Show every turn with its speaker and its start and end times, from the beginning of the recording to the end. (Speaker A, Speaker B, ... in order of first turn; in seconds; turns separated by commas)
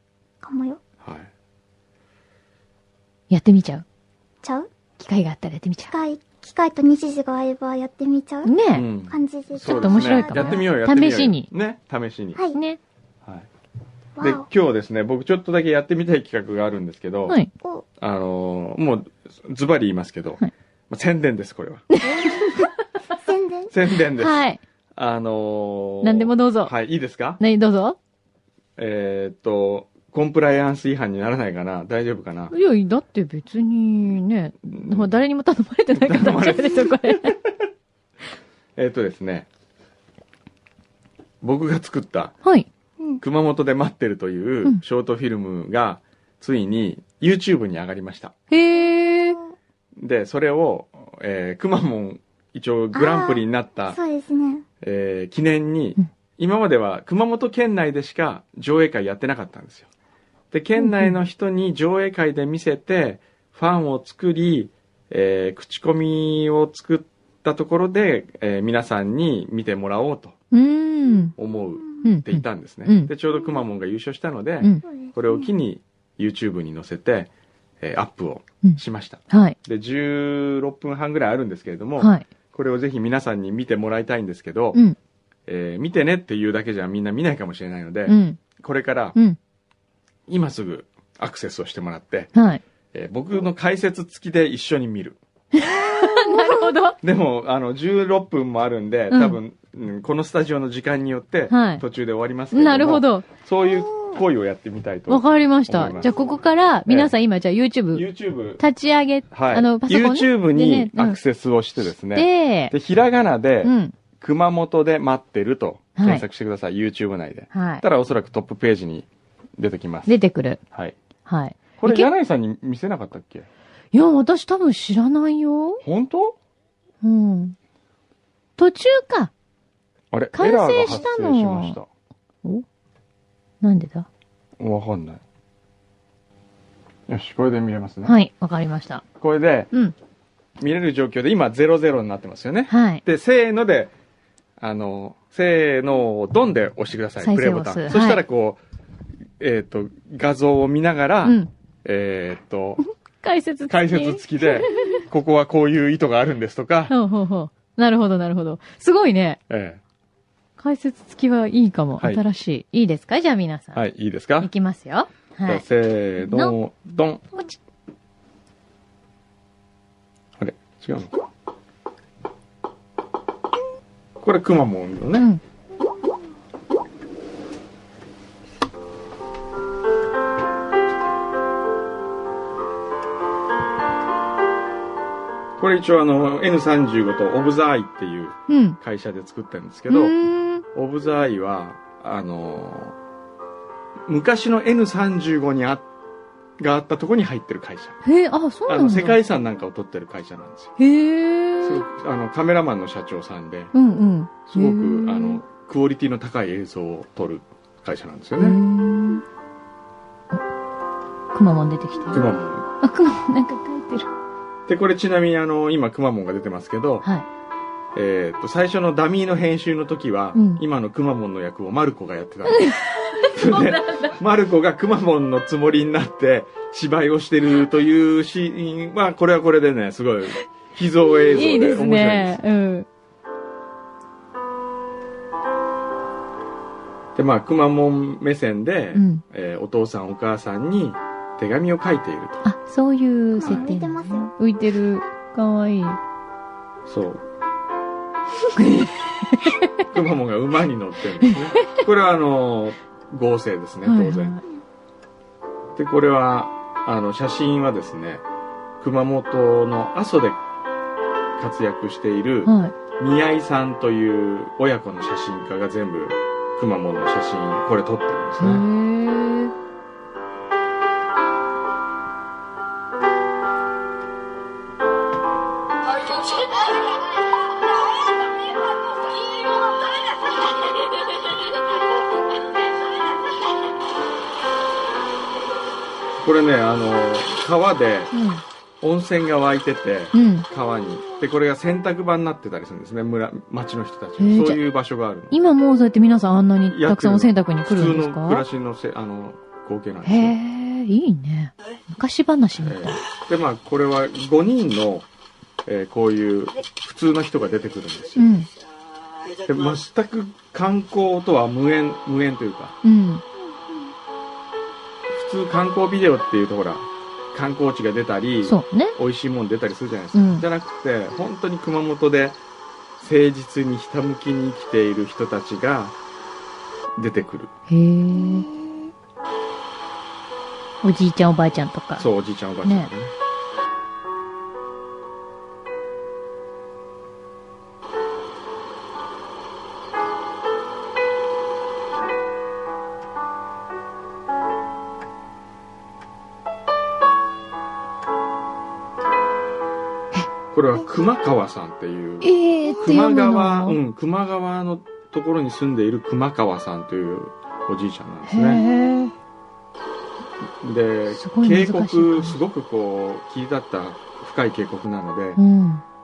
Speaker A: 0.4-0.8, Speaker B: 1.0-1.3, Speaker C: 3.3-3.8, Speaker A: 4.4-4.7, Speaker C: 5.0-5.9, Speaker A: 5.9-8.5, Speaker C: 8.4-8.9, Speaker B: 8.7-12.4, Speaker A: 9.1-10.7, Speaker C: 9.7-11.5, Speaker C: 12.5-12.8, Speaker A: 14.2-14.5, Speaker B: 14.2-17.4, Speaker B: 18.0-21.9, Speaker C: 21.9-22.7, Speaker A: 22.2-22.6, Speaker A: 23.2-23.7, Speaker B: 23.7-27.4, Speaker C: 24.2-24.6, Speaker C: 26.0-26.7, Speaker C: 27.4-28.0, Speaker B: 28.8-32.5, Speaker C: 32.5-37.4, Speaker B: 34.7-35.1, Speaker B: 35.9-37.5, Speaker B: 38.8-39.5, Speaker B: 41.4-42.3, Speaker B: 43.2-48.3, Speaker C: 48.5-49.4, Speaker A: 49.1-49.5, Speaker B: 50.0-54.0, Speaker A: 52.9-54.6, Speaker B: 54.8-59.9, Speaker B: 60.5-70.4, Speaker C: 60.8-61.1, Speaker C: 70.5-71.3, Speaker B: 71.4-77.3, Speaker C: 72.0-73.1, Speaker A: 74.8-75.5, Speaker B: 77.8-84.8, Speaker C: 78.6-79.6, Speaker C: 82.0-82.2, Speaker B: 85.5-89.2, Speaker C: 88.0-88.4, Speaker B: 90.3-92.3, Speaker C: 92.3-92.6, Speaker B: 92.9-95.2, Speaker C: 95.5-97.0, Speaker A: 96.1-96.4, Speaker B: 97.0-106.3, Speaker C: 99.1-99.4, Speaker C: 101.5-101.8, Speaker C: 102.5-103.3, Speaker A: 103.6-104.2, Speaker C: 105.1-108.0, Speaker B: 106.8-107.1, Speaker B: 107.9-108.6, Speaker C: 108.6-111.2, Speaker B: 109.3-120.1, Speaker C: 112.1-112.7, Speaker C: 113.6-113.9, Speaker C: 116.0-116.2, Speaker C: 117.5-117.8, Speaker C: 120.1-120.6, Speaker C: 121.2-122.1, Speaker B: 121.8-123.5, Speaker C: 123.9-125.8, Speaker B: 125.8-126.4, Speaker C: 127.0-127.5, Speaker C: 128.6-129.3, Speaker B: 130.1-131.9, Speaker C: 130.3-131.8, Speaker C: 133.6-134.1, Speaker B: 134.6-135.2, Speaker B: 137.1-138.2, Speaker C: 138.0-139.0, Speaker B: 139.2-139.7, Speaker B: 140.6-143.9, Speaker C: 142.7-143.0, Speaker B: 144.6-148.6, Speaker C: 147.2-148.2, Speaker B: 149.4-152.8, Speaker C: 151.2-151.5, Speaker C: 152.8-155.0, Speaker B: 153.7-156.9, Speaker C: 156.9-159.4, Speaker B: 159.5-159.8, Speaker C: 160.6-163.8, Speaker B: 163.7-164.5, Speaker C: 164.4-165.6, Speaker B: 165.4-167.4, Speaker C: 166.2-166.6, Speaker B: 170.4-171.1, Speaker B: 174.2-175.3, Speaker B: 185.6-190.1, Speaker C: 188.5-188.8, Speaker C: 189.9-190.6, Speaker B: 190.7-192.9, Speaker B: 194.1-195.9, Speaker B: 196.6-198.0, Speaker C: 198.0-199.2, Speaker B: 198.7-200.7, Speaker C: 200.8-201.8, Speaker B: 201.6-203.7, Speaker C: 203.7-205.4, Speaker B: 204.5-208.6, Speaker C: 208.4-209.2, Speaker C: 211.3-212.2, Speaker B: 212.1-212.7, Speaker C: 212.8-214.1, Speaker B: 214.7-217.1, Speaker B: 217.9-232.4, Speaker C: 220.3-220.6, Speaker C: 222.5-224.1, Speaker C: 231.1-232.9, Speaker B: 237.2-242.5, Speaker C: 238.9-239.2, Speaker C: 242.4-246.0, Speaker A: 243.4-244.3, Speaker B: 246.8-247.2, Speaker C: 248.5-249.7, Speaker B: 249.9-254.4, Speaker C: 253.8-254.4, Speaker B: 255.8-258.2, Speaker B: 258.8-260.4, Speaker B: 261.4-268.6, Speaker C: 262.4-262.7, Speaker C: 268.4-269.5, Speaker B: 286.2-288.1, Speaker C: 288.1-288.4, Speaker B: 288.8-295.3, Speaker C: 290.1-290.5, Speaker C: 294.2-294.6, Speaker C: 295.3-298.4, Speaker B: 296.7-300.4, Speaker C: 300.0-303.0, Speaker B: 302.6-305.1, Speaker B: 305.6-308.3, Speaker C: 308.2-308.5, Speaker B: 309.4-312.8, Speaker C: 312.8-313.2, Speaker A: 313.5-313.9, Speaker B: 315.1-322.4, Speaker C: 318.4-319.0, Speaker C: 320.1-320.4, Speaker B: 323.0-325.9, Speaker B: 326.9-327.5, Speaker C: 327.7-328.5, Speaker A: 328.1-328.9, Speaker C: 330.8-332.1, Speaker B: 332.0-333.1, Speaker C: 332.6-332.9, Speaker B: 350.5-358.6, Speaker C: 352.2-353.8, Speaker C: 358.3-359.1, Speaker B: 360.6-365.4, Speaker C: 361.1-362.4, Speaker C: 365.4-365.8